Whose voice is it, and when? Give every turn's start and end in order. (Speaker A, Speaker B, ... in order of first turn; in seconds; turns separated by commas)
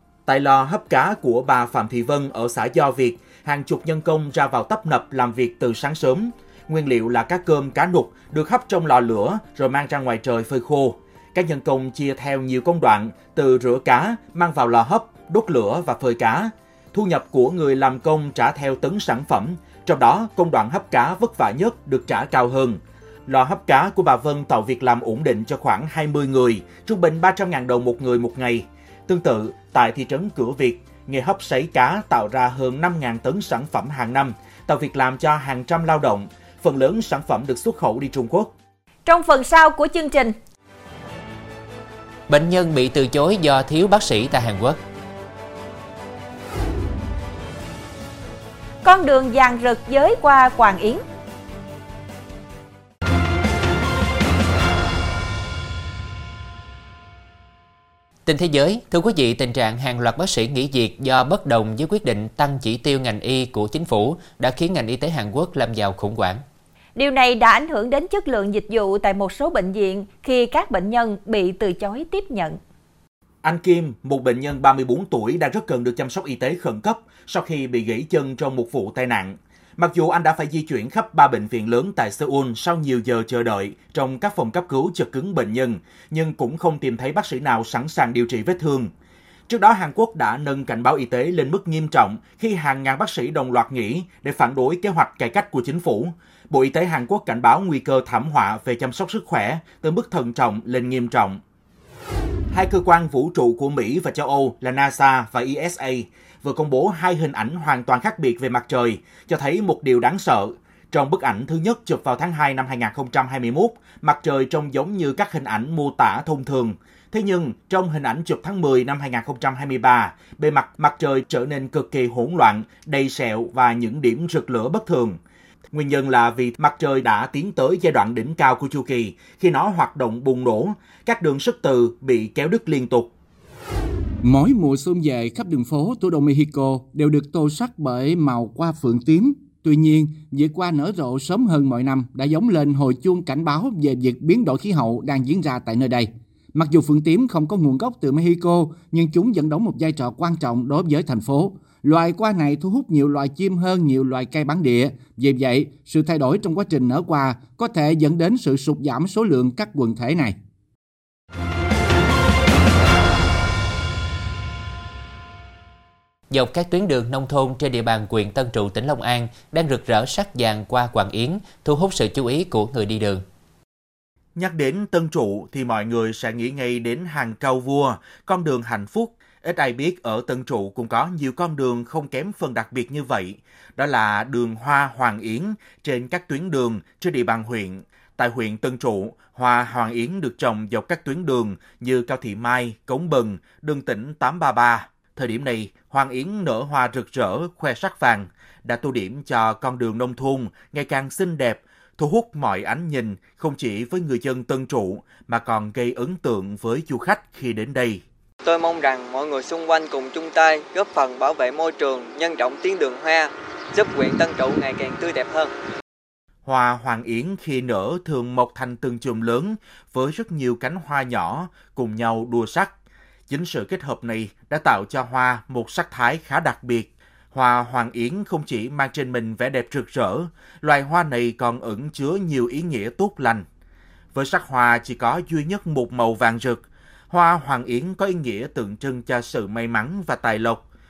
Speaker A: 0.3-38.5, Speaker B: 39.0-40.3, Speaker C: 42.3-44.8, Speaker B: 48.8-51.0, Speaker C: 58.2-66.4, Speaker B: 67.0-72.6, Speaker A: 73.4-88.9, Speaker A: 89.5-101.4, Speaker A: 102.5-125.2, Speaker A: 125.7-133.1, Speaker D: 134.2-160.3, Speaker C: 166.3-173.2, Speaker A: 174.3-208.0, Speaker E: 208.4-215.5, Speaker A: 216.4-222.7, Speaker A: 223.3-233.4, Speaker A: 234.1-240.6